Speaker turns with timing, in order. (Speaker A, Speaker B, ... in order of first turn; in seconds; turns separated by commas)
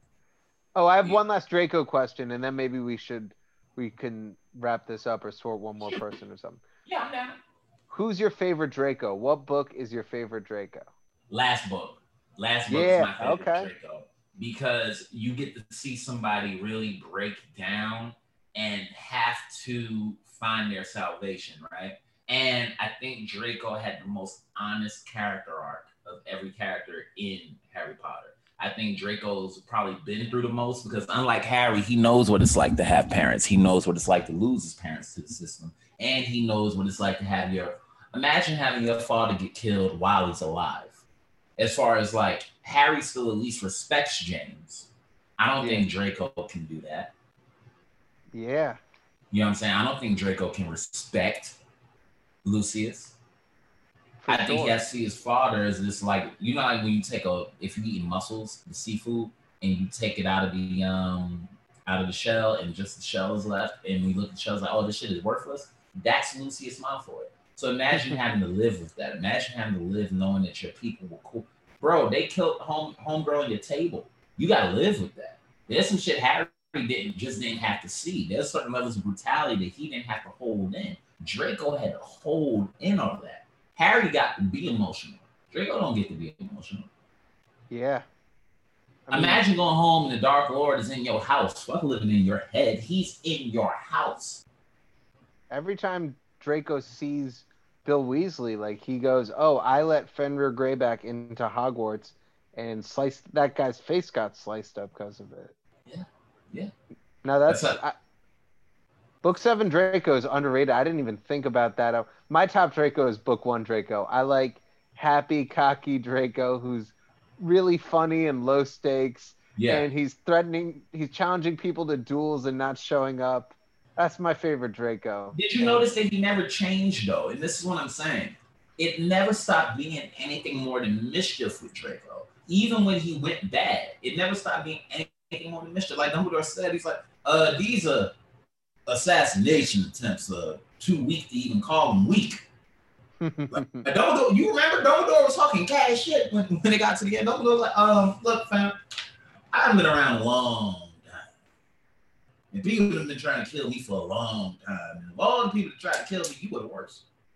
Speaker A: 0.8-6.6, Speaker B: 5.8-6.1, Speaker B: 6.9-7.4, Speaker A: 7.9-10.9, Speaker B: 11.3-41.0, Speaker A: 12.7-13.7, Speaker B: 41.6-47.1, Speaker A: 45.6-45.9, Speaker A: 48.3-48.8, Speaker B: 49.3-51.6, Speaker B: 52.4-53.1, Speaker A: 54.2-54.7, Speaker B: 54.3-86.9, Speaker A: 87.7-88.1, Speaker A: 89.1-89.4, Speaker B: 89.1-94.4, Speaker A: 95.5-105.5, Speaker B: 105.9-106.7, Speaker A: 107.2-108.0, Speaker B: 107.5-107.8, Speaker A: 109.2-125.9, Speaker B: 119.6-119.9, Speaker B: 125.3-138.1, Speaker B: 138.9-142.4, Speaker A: 143.2-143.8, Speaker B: 143.5-148.8, Speaker B: 149.5-151.3, Speaker B: 152.5-157.0